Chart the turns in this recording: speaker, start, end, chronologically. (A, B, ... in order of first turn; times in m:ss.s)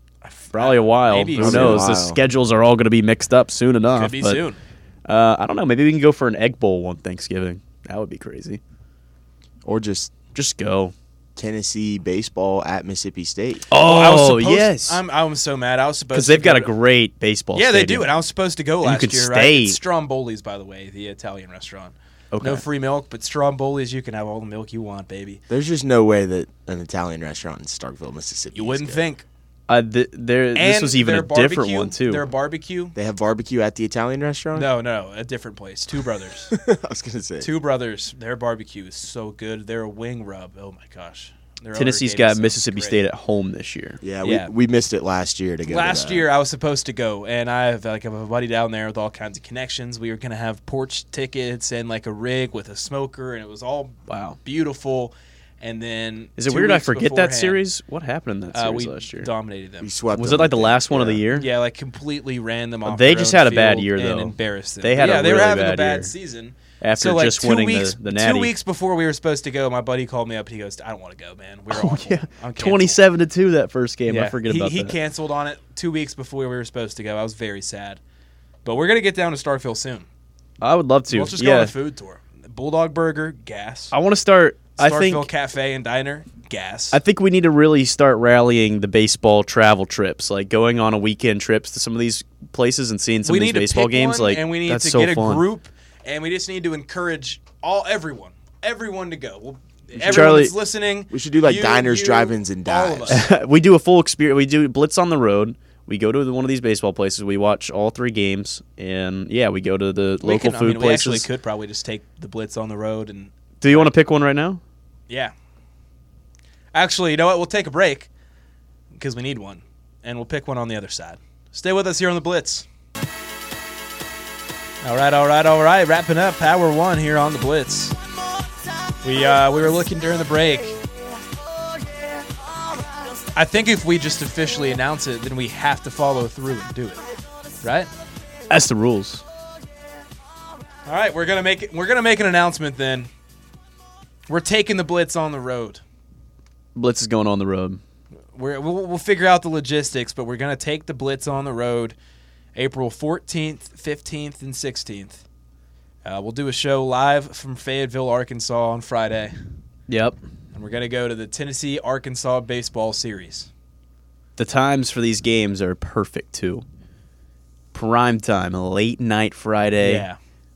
0:00.2-0:01.9 A
0:00.6-0:04.4 B
0:01.4-0:02.2 C
0:03.9-0:04.6 A
0:05.1-0:08.6 B
0:09.6-0:10.2 C
0:10.3-0:10.9 B
0:11.4-0:13.7 C
0:13.7-0:15.0 B
0:13.7-0:16.7 A
0:16.1-0:18.1 B
0:17.5-0:25.4 A
0:18.8-0:19.8 B
0:22.3-0:22.6 B
0:25.5-0:29.0 C
0:28.6-0:29.3 A
0:29.7-0:32.2 B
0:30.6-0:32.9 A
0:33.0-0:34.7 C
0:34.6-0:36.5 A
0:36.5-0:37.5 C
0:37.4-0:43.0 A
0:41.8-0:44.0 B
0:44.0-0:46.3 C
0:44.2-0:44.5 A
0:45.7-0:57.6 A
0:54.1-0:54.4 B
0:56.4-0:59.3 B
0:58.5-0:59.9 A
0:59.8-1:01.2 C
1:00.2-1:01.5 B
1:01.3-1:13.0 A
1:02.9-1:06.1 B
1:06.8-1:08.5 B
1:11.7-1:14.9 B
1:14.1-1:18.0 A
1:18.6-1:20.1 A
1:20.6-1:21.7 B
1:21.1-1:24.0 A
1:23.9-1:25.3 B
1:24.8-1:27.0 A
1:26.9-1:35.4 B
1:33.2-1:43.3 A
1:40.0-1:40.6 B
1:40.0-1:40.4 C
1:41.1-1:43.3 C
1:43.1-1:51.3 B
1:50.2-1:53.9 A
1:53.6-1:54.6 B
1:56.7-1:58.1 A
1:58.9-2:02.7 A
2:04.8-2:08.0 A
2:09.0-2:10.8 A
2:13.3-2:17.0 A
2:17.6-2:17.9 A
2:18.5-2:19.2 B
2:20.9-2:23.1 A
2:24.3-2:25.8 A
2:26.8-2:27.8 B
2:28.4-2:32.0 A
2:32.6-2:35.2 A
2:36.0-2:39.4 A
2:39.9-2:40.2 B
2:40.5-2:43.5 A
2:44.4-2:46.6 B
2:47.7-2:50.1 B
2:49.8-2:50.2 A